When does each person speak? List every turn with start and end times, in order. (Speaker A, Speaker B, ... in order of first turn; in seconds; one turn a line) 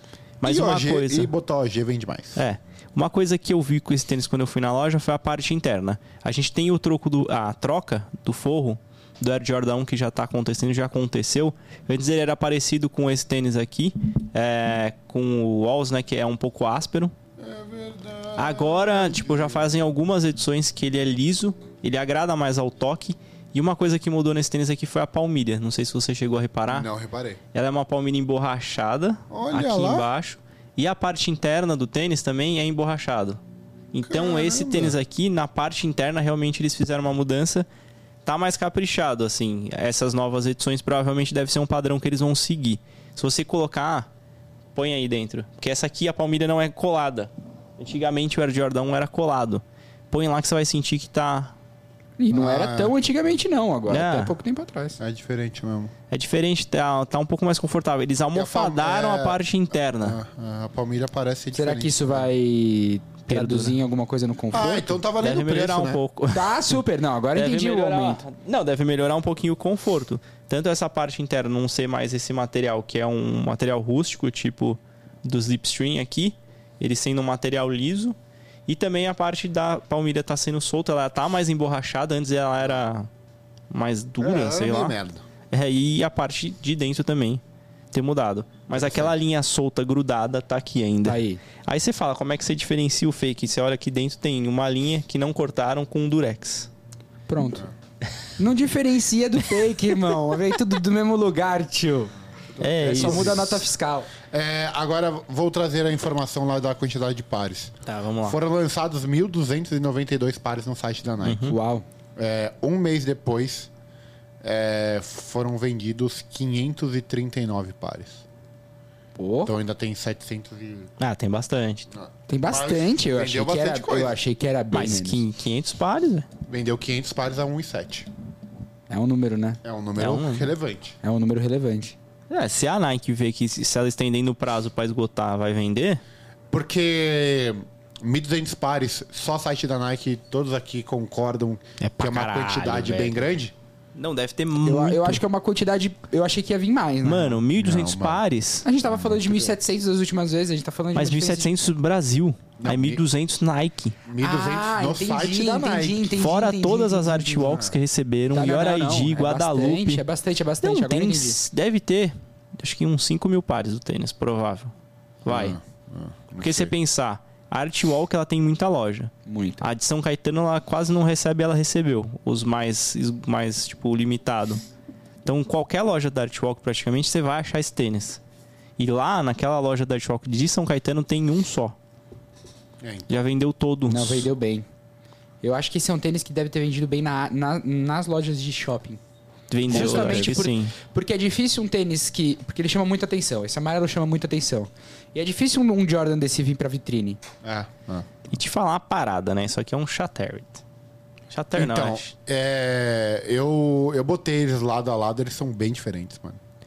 Speaker A: 0.4-1.3
Speaker B: 0.4-2.4
Speaker A: 2.4-17.1
Speaker B: 17.4-19.7
Speaker A: 18.4-26.9
Speaker B: 26.7-27.4
Speaker A: 27.5-33.4
Speaker B: 29.3-30.1
Speaker A: 33.9-37.6
Speaker B: 34.0-35.0
Speaker A: 38.2-44.1
Speaker A: 44.7-51.5
Speaker C: 52.2-55.0
Speaker B: 52.3-53.0
Speaker A: 53.9-54.4
Speaker B: 55.0-55.9
Speaker A: 56.1-60.2
Speaker B: 58.3-59.4
Speaker B: 60.0-62.3
Speaker C: 61.5-65.0
Speaker A: 63.3-63.8
Speaker B: 64.5-66.0
Speaker A: 65.2-66.8
Speaker C: 66.3-68.2
Speaker A: 67.3-78.2
Speaker A: 78.7-83.1
Speaker A: 83.7-84.9
Speaker B: 84.2-85.2
Speaker A: 85.5-87.4
Speaker A: 87.9-96.7
Speaker B: 88.8-89.1
Speaker C: 91.0-91.4
Speaker C: 97.3-97.7
Speaker C: 98.4-102.1
Speaker A: 99.7-100.4
Speaker B: 102.5-103.6
Speaker A: 102.6-103.6
Speaker C: 102.8-104.1
Speaker B: 104.3-111.4
Speaker A: 107.8-108.4
Speaker A: 111.2-111.5
Speaker C: 111.4-111.8
Speaker B: 112.2-113.7
Speaker B: 114.4-118.2
Speaker C: 119.2-119.5
Speaker B: 119.5-120.9
Speaker A: 121.0-121.9
Speaker B: 121.9-124.2
Speaker C: 122.3-125.2
Speaker A: 124.7-126.3
Speaker B: 126.5-128.1
Speaker C: 128.9-129.6
Speaker B: 129.6-131.0
Speaker A: 130.0-130.5
Speaker C: 131.0-131.9
Speaker A: 132.3-136.0
Speaker B: 136.5-143.5
Speaker A: 141.8-143.2
Speaker A: 143.9-145.2
Speaker C: 144.6-147.4
Speaker A: 147.0-148.7
Speaker B: 147.6-148.2
Speaker C: 148.6-151.5
Speaker B: 148.8-149.6
Speaker A: 150.9-154.0
Speaker B: 152.6-153.0
Speaker B: 154.0-156.1
Speaker C: 154.2-157.7
Speaker A: 156.1-160.0
Speaker C: 158.3-161.4
Speaker A: 160.6-164.7
Speaker A: 165.2-165.6
Speaker B: 165.2-166.7
Speaker A: 166.4-174.6
Speaker C: 169.2-169.7
Speaker A: 175.2-178.2
Speaker A: 178.8-181.8
Speaker B: 182.8-183.2
Speaker A: 183.1-184.3
Speaker C: 183.9-184.7
Speaker C: 185.4-189.0
Speaker A: 189.5-190.7
Speaker C: 189.7-197.2
Speaker B: 189.7-190.4
Speaker B: 197.4-198.1
Speaker A: 198.3-200.6
Speaker A: 201.3-202.1
Speaker B: 201.5-206.4